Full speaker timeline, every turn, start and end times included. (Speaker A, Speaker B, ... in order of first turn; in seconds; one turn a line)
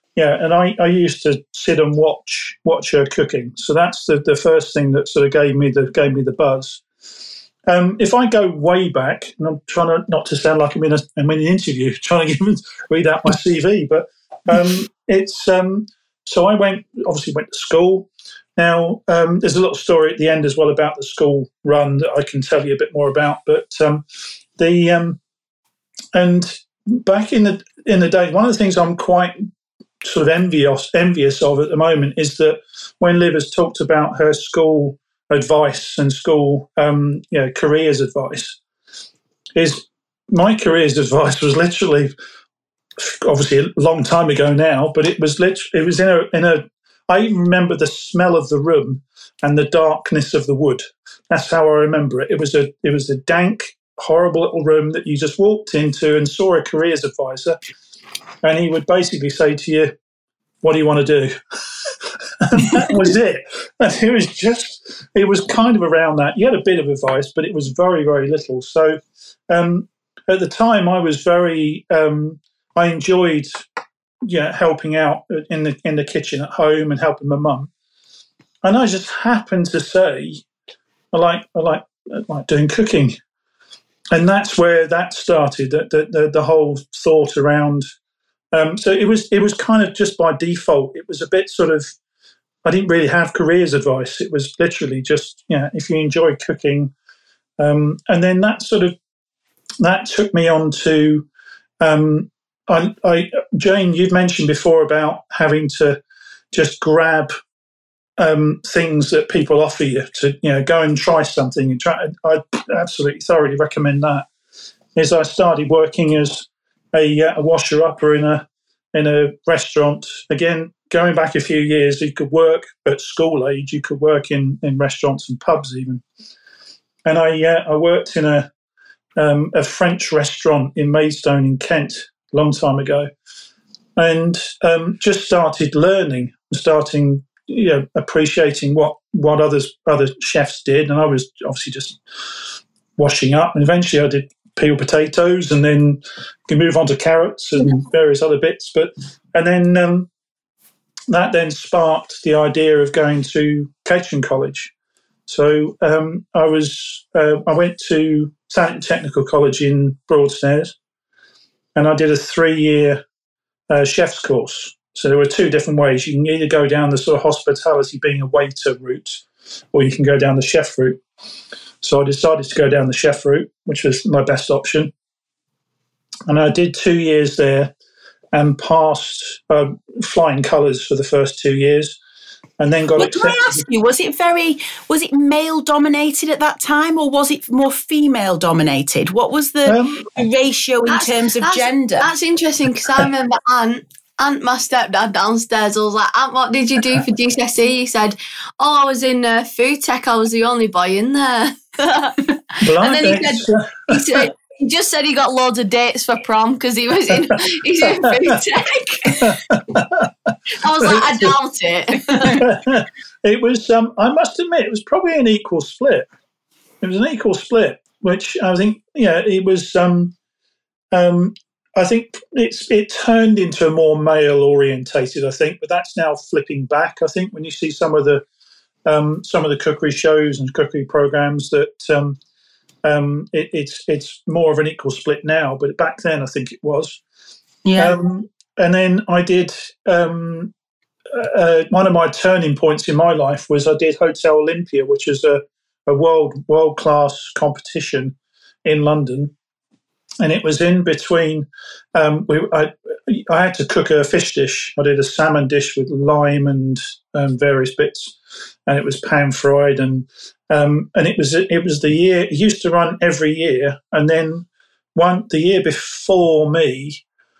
Speaker A: 0.1-6.8
Speaker A: 7.7-24.0
Speaker A: 24.6-25.2
Speaker A: 26.1-29.4
Speaker A: 30.0-38.6
Speaker A: 39.5-42.1
Speaker A: 43.0-57.6
Speaker A: 58.4-59.9
Speaker A: 60.6-69.0
Speaker A: 69.5-73.6
Speaker A: 74.2-77.7
Speaker A: 78.6-80.4
Speaker A: 81.1-83.2
Speaker A: 84.1-87.9
Speaker A: 88.5-91.9
Speaker A: 92.6-96.9
Speaker A: 97.6-99.0
Speaker A: 99.8-101.3
Speaker A: 101.8-106.0
Speaker A: 106.5-107.3
Speaker A: 108.2-114.3
Speaker A: 114.9-126.0
Speaker A: 127.0-128.5
Speaker A: 129.2-133.1
Speaker A: 134.0-142.4
Speaker A: 143.0-150.1
Speaker A: 151.1-154.7
Speaker A: 155.3-160.8
Speaker A: 161.7-163.0
Speaker A: 163.7-171.0
Speaker A: 171.8-174.9
Speaker A: 176.3-177.7
Speaker A: 178.3-182.0
Speaker A: 182.6-183.6
Speaker B: 183.0-192.1
Speaker A: 189.7-190.1
Speaker C: 190.9-209.4
Speaker A: 202.6-204.3
Speaker A: 209.2-211.3
Speaker C: 210.6-212.4
Speaker B: 212.1-212.4
Speaker A: 212.4-216.1
Speaker A: 216.8-220.1
Speaker A: 220.9-228.2
Speaker A: 228.8-232.2
Speaker A: 232.8-237.0
Speaker B: 237.6-237.9
Speaker A: 237.8-240.5
Speaker A: 241.1-249.3
Speaker A: 250.2-258.1
Speaker A: 258.7-267.0